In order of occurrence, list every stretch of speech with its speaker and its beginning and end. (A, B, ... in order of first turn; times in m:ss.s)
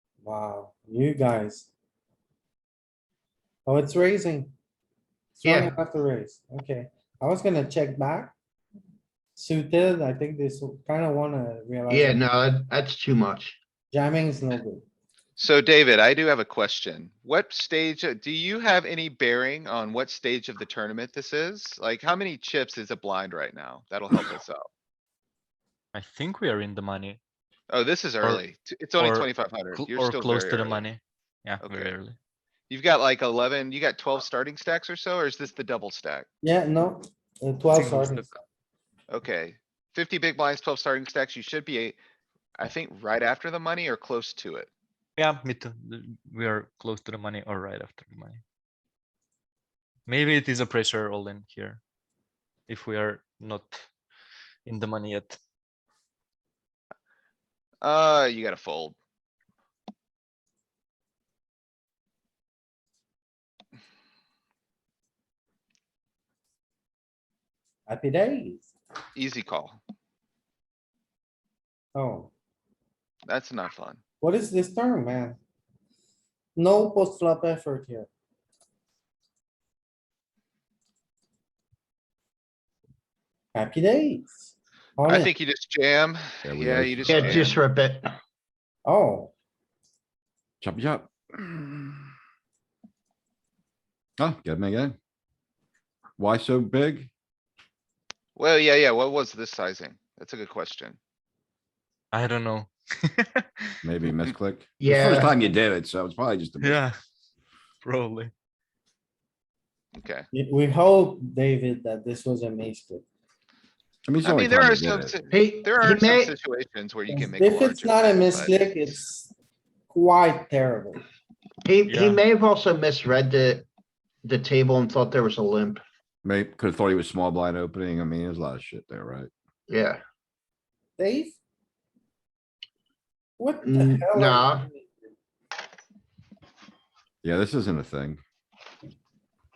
0:00.2-0:01.7 A
0:03.7-0:04.5 A
0:05.4-0:08.3 A
0:05.4-0:05.8 B
0:09.4-0:12.2 A
0:11.9-0:13.6 B
0:13.9-0:14.8 A
0:15.4-0:24.6 C
0:25.9-0:27.2 D
0:27.7-0:30.8 C
0:29.0-0:32.2 D
0:31.6-0:31.9 C
0:32.7-0:36.3 C
0:36.4-0:38.3 A
0:37.7-0:38.3 D
0:39.1-0:42.0 C
0:42.6-0:44.7 C
0:45.2-0:48.4 D
0:50.1-0:51.8 D
0:52.7-0:53.9 D
0:54.6-0:55.4 D
0:57.8-0:59.0 C
1:07.9-1:08.7 A
1:09.2-1:09.8 C
1:12.0-1:12.3 A
1:13.3-1:14.0 C
1:14.2-1:15.4 A
1:16.6-1:18.1 A
1:23.5-1:25.3 A
1:25.0-1:27.6 C
1:26.4-1:27.5 E
1:27.1-1:28.1 B
1:28.8-1:29.3 A
1:30.6-1:32.1 E
1:34.2-1:35.0 E
1:36.2-1:37.1 E
1:38.4-1:41.0 C
1:42.1-1:43.5 D
1:43.8-1:46.8 E
1:44.8-1:45.4 B
1:46.6-1:47.0 D
1:47.8-1:48.3 D
1:50.0-1:50.3 C
1:50.3-1:53.0 A
1:54.0-1:55.2 E
1:54.2-1:58.8 C
1:55.3-1:56.3 B
1:57.1-1:59.3 A
1:59.9-2:01.0 A
2:01.6-2:03.6 B
2:01.9-2:02.2 D
2:04.2-2:05.8 B
2:06.2-2:09.3 E
2:09.7-2:10.0 B
2:11.0-2:11.4 A
2:13.4-2:15.0 A
2:13.6-2:14.7 B
2:17.2-2:18.2 E